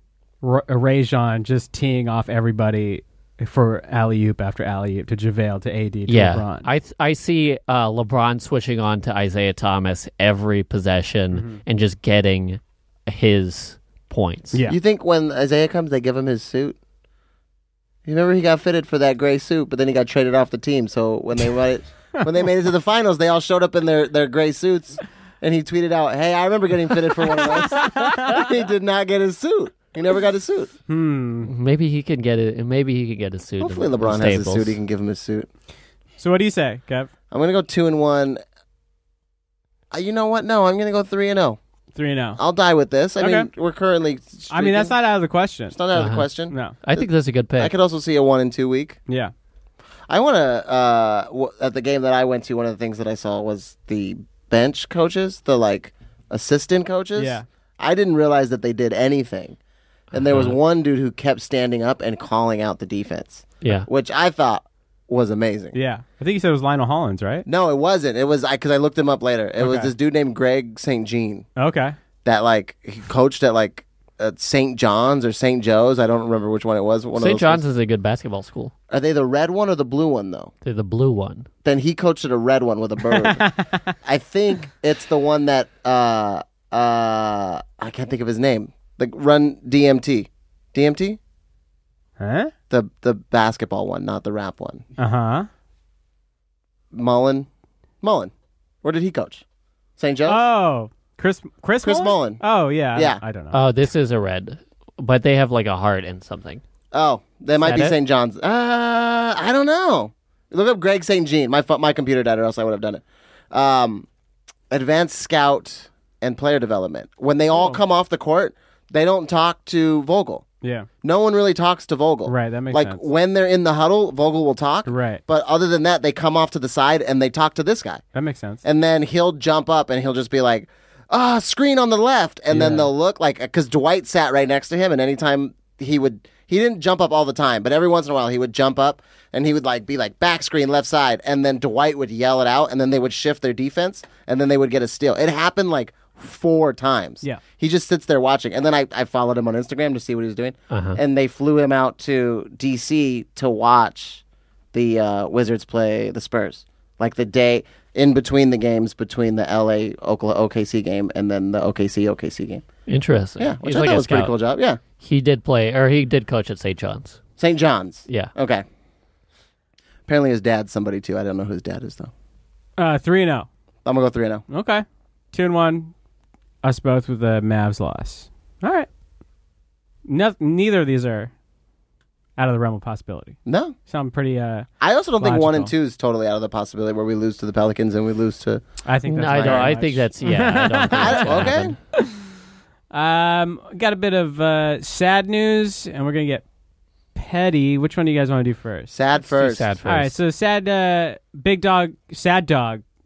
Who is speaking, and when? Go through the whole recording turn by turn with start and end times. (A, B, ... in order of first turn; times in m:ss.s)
0:00.4-0:06.7 A
0:06.1-0:14.6 B
0:11.3-0:11.6 A
0:14.7-0:16.8 C
0:18.0-0:30.7 C
0:27.3-0:28.4 A
0:30.9-0:31.5 A
0:31.4-0:34.8 B
0:33.6-0:35.5 C
0:36.2-0:37.1 A
0:37.3-0:38.4 C
0:39.9-0:41.6 C
0:41.9-0:42.4 A
0:42.4-0:44.9 C
0:43.2-0:43.5 A
0:44.5-0:45.8 A
0:45.7-0:49.0 C
0:45.9-0:46.3 B
0:46.5-0:46.7 A
0:46.8-0:47.7 B
0:50.1-0:59.6 C
0:57.2-0:57.4 A
1:00.1-1:05.7 C
1:00.1-1:00.5 B
1:05.7-1:07.4 A
1:07.5-1:11.5 C
1:09.6-1:09.9 A
1:11.6-1:12.0 A
1:12.2-1:17.6 C
1:17.1-1:18.7 B
1:18.9-1:20.5 C
1:20.6-1:21.5 B
1:21.6-1:23.5 C
1:23.1-1:23.9 A
1:24.0-1:31.2 C
1:32.2-1:32.5 A
1:32.7-1:34.8 C
1:35.0-1:35.5 A
1:36.9-1:37.5 C
1:38.0-1:38.3 C
1:38.8-1:39.4 C
1:40.0-1:40.4 C
1:40.3-1:43.6 A
1:41.8-1:42.4 C
1:42.9-1:43.2 C
1:43.5-1:46.6 B
1:46.9-1:54.0 C
1:47.6-1:48.0 B
1:54.7-2:00.4 C
1:57.5-1:57.8 A
2:00.6-2:00.9 A
2:01.0-2:08.0 C
2:02.2-2:03.0 A
2:04.8-2:05.2 A
2:08.1-2:08.6 A
2:08.6-2:34.2 C
2:12.5-2:12.9 A
2:30.7-2:31.0 B
2:34.7-2:42.6 C
2:42.9-2:44.3 B
2:43.4-2:44.8 C
2:45.0-2:47.2 B
2:47.4-2:48.6 C
2:50.1-2:52.1 C
2:52.8-2:53.5 A
2:53.8-2:54.4 C
2:54.5-2:55.9 A
2:56.6-2:58.9 A
3:00.0-3:01.3 A
3:02.4-3:04.7 A
3:03.4-3:03.7 C
3:04.8-3:08.6 C
3:05.2-3:05.7 A
3:08.8-3:12.2 A
3:09.1-3:11.8 B
3:09.3-3:09.7 C
3:10.8-3:11.8 C
3:12.9-3:16.4 A
3:17.1-3:19.0 A
3:18.9-3:19.7 C
3:19.2-3:20.1 B
3:19.8-3:22.8 A